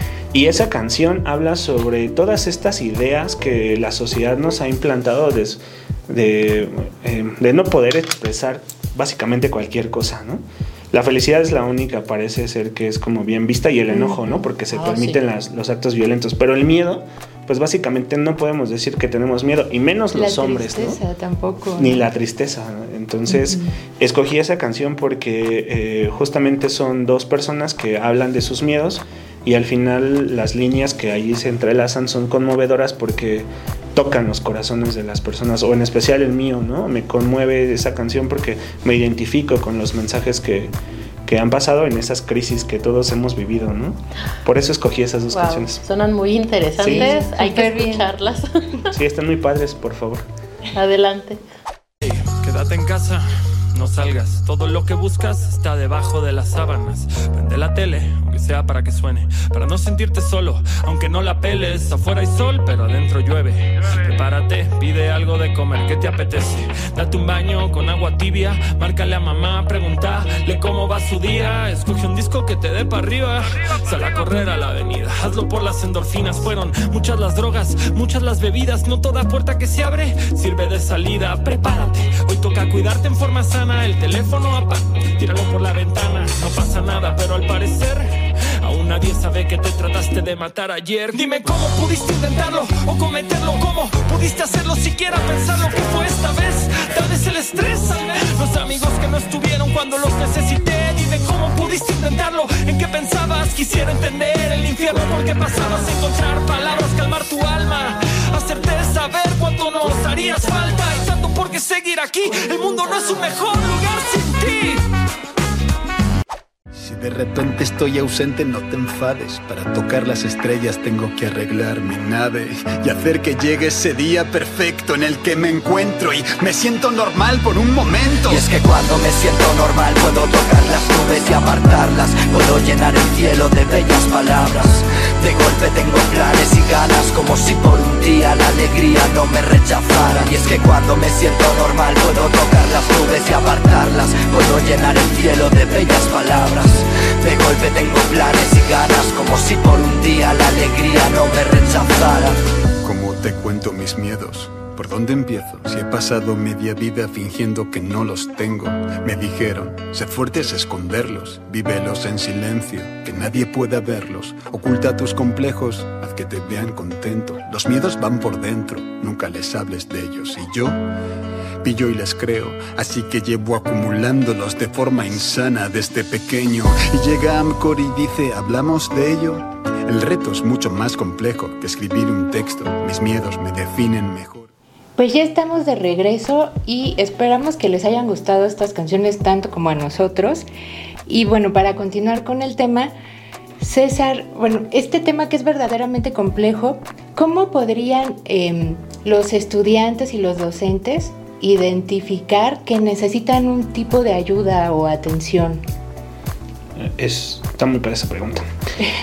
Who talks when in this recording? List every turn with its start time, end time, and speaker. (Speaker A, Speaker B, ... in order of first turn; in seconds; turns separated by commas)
Speaker A: 0.3-21.0, Speaker B: 13.9-14.4, Speaker C: 14.7-15.2, Speaker B: 20.1-22.1, Speaker A: 21.8-40.7, Speaker B: 23.3-23.7, Speaker A: 41.2-45.8, Speaker C: 45.3-48.9, Speaker A: 46.8-47.1, Speaker B: 46.9-48.1, Speaker A: 48.9-50.3, Speaker C: 50.7-51.4, Speaker D: 52.0-114.9, Speaker E: 116.7-128.5, Speaker F: 128.3-152.4, Speaker E: 152.8-170.8, Speaker E: 171.6-184.5, Speaker B: 185.0-190.5, Speaker B: 191.1-192.9, Speaker B: 193.6-205.6, Speaker A: 206.8-208.5